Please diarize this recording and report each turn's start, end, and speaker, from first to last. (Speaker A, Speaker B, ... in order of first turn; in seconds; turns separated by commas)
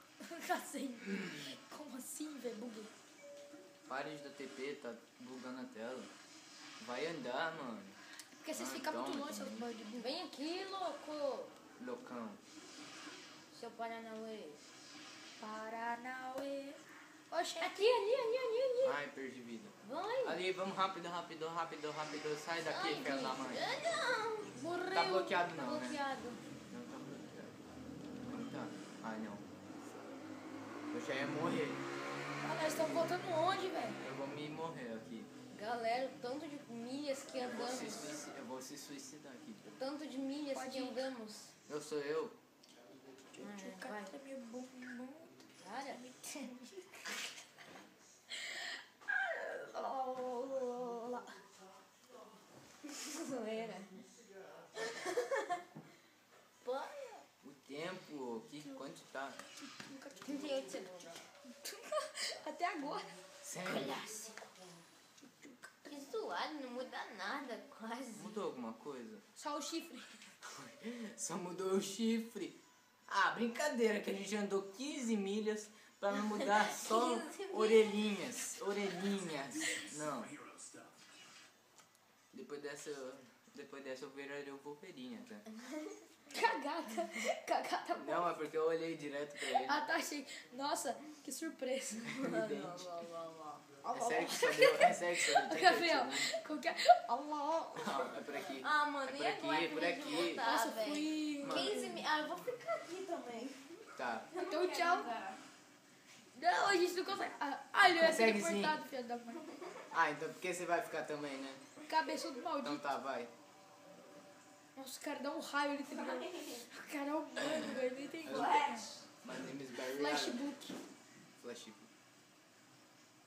Speaker A: 0.2-2.9, Speaker B: 3.9-6.1, Speaker B: 6.8-8.0, Speaker A: 8.4-10.1, Speaker B: 8.5-9.7, Speaker C: 9.9-11.5, Speaker B: 11.8-12.4, Speaker C: 13.5-14.6, Speaker A: 15.4-17.9, Speaker C: 17.6-19.0, Speaker B: 18.8-23.7, Speaker C: 19.8-20.4, Speaker C: 22.7-24.6, Speaker A: 24.6-25.4, Speaker B: 24.9-26.0, Speaker C: 25.4-26.4, Speaker B: 26.7-27.6, Speaker B: 28.2-29.4, Speaker B: 30.9-31.8, Speaker A: 32.4-34.0, Speaker B: 32.5-33.2, Speaker B: 34.0-35.3, Speaker C: 35.5-38.1, Speaker B: 37.3-39.6, Speaker C: 39.6-41.5, Speaker A: 40.5-41.1, Speaker B: 41.7-42.4, Speaker A: 43.3-47.3, Speaker C: 43.4-44.1, Speaker C: 45.6-46.0, Speaker A: 48.3-51.4, Speaker C: 52.9-54.0, Speaker C: 54.7-55.6, Speaker C: 56.6-57.2, Speaker B: 57.4-59.4, Speaker A: 59.6-63.2, Speaker C: 60.2-61.2, Speaker B: 63.4-64.0, Speaker C: 63.7-64.4, Speaker A: 65.2-65.9, Speaker C: 65.9-68.4, Speaker B: 68.1-69.2, Speaker A: 69.4-70.2, Speaker B: 70.4-80.4, Speaker C: 76.3-78.3, Speaker B: 82.3-85.4, Speaker A: 86.3-88.2, Speaker B: 88.0-89.8, Speaker A: 89.5-92.2, Speaker B: 92.1-92.8, Speaker C: 92.2-93.7, Speaker A: 93.8-98.2, Speaker B: 93.9-96.4, Speaker B: 97.7-100.4, Speaker C: 98.6-105.4, Speaker A: 100.2-102.0, Speaker B: 101.4-101.8, Speaker B: 104.0-104.3, Speaker A: 104.5-105.1, Speaker A: 106.3-109.4, Speaker B: 107.8-108.8, Speaker B: 109.9-111.6, Speaker A: 111.9-112.8, Speaker B: 112.6-113.3, Speaker A: 114.8-118.9, Speaker C: 116.2-116.5, Speaker B: 117.4-117.7, Speaker B: 118.2-120.5, Speaker C: 118.3-119.0, Speaker A: 119.8-120.7, Speaker B: 121.4-121.9